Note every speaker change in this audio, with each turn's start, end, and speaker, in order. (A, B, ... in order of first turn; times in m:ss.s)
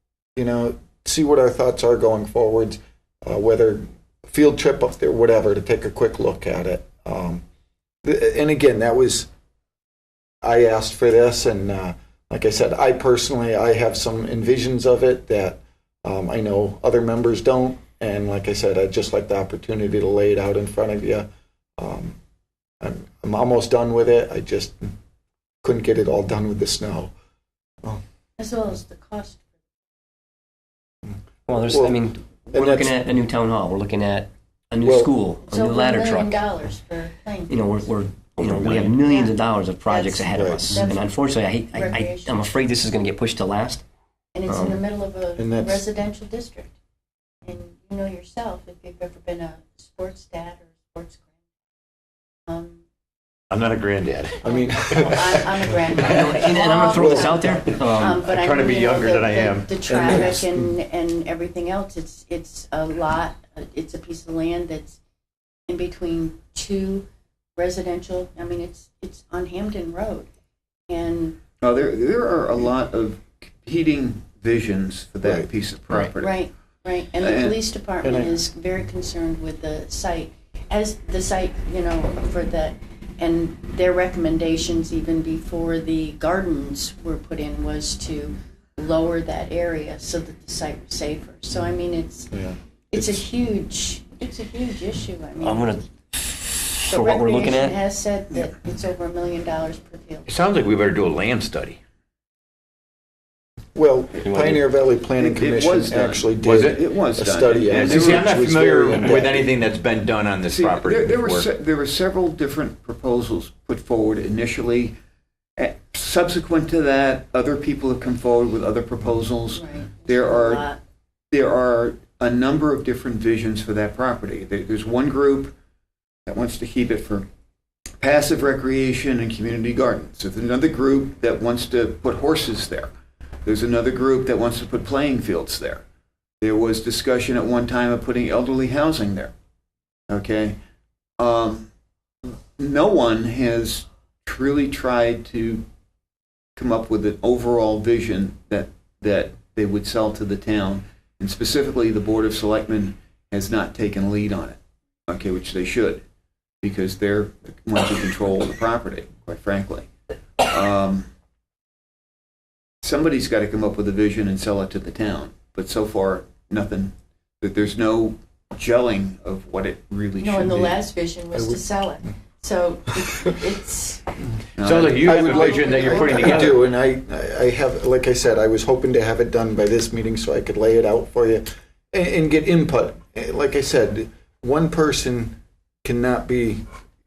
0:00.4-0:07.4 A
0:08.0-0:09.3 A
0:10.4-0:22.2 A
0:22.8-0:24.9 A
0:25.6-0:27.1 A
0:28.4-0:29.4 B
0:31.1-0:32.0 A
0:31.5-0:36.4 C
0:32.5-0:33.0 A
0:34.8-0:35.1 A
0:35.5-0:37.8 B
0:37.5-0:43.8 C
0:39.0-0:42.4 B
0:40.3-0:40.8 A
0:44.3-0:46.7 B
0:44.5-0:44.8 A
0:45.4-0:45.8 A
0:47.4-0:51.2 B
0:52.5-0:52.8 B
0:53.5-0:55.4 D
0:54.4-1:05.0 B
0:54.4-0:55.5 A
0:56.0-0:58.2 C
0:56.9-0:57.5 A
0:57.8-1:00.2 D
0:59.9-1:00.7 A
1:05.7-1:10.3 B
1:10.9-1:11.4 B
1:11.6-1:16.5 E
1:16.2-1:32.3 B
1:17.2-1:17.6 E
1:18.0-1:18.4 A
1:32.3-1:33.2 A
1:32.9-1:35.8 B
1:35.4-1:37.8 C
1:36.9-1:40.3 B
1:40.3-1:41.8 D
1:43.8-1:49.5 A
1:44.2-1:44.6 C
1:45.2-1:48.4 E
1:46.4-1:46.8 D
1:47.6-1:51.5 D
1:50.5-1:55.0 E
1:55.6-2:00.7 E
1:59.5-2:00.8 B
2:01.3-2:05.5 E
2:06.3-2:07.3 E
2:08.0-2:12.9 E
2:13.4-2:15.8 E
2:16.4-2:19.3 E
2:20.1-2:20.6 E
2:21.2-2:21.7 E
2:22.2-2:25.6 E
2:26.6-2:36.0 E
2:36.6-2:39.9 E
2:40.4-2:41.1 E
2:42.8-2:50.8 E
2:50.2-2:54.1 B
2:51.3-2:51.6 A
2:54.6-2:55.6 E
2:54.6-2:56.7 D
2:55.0-3:06.6 A
2:55.2-2:56.6 B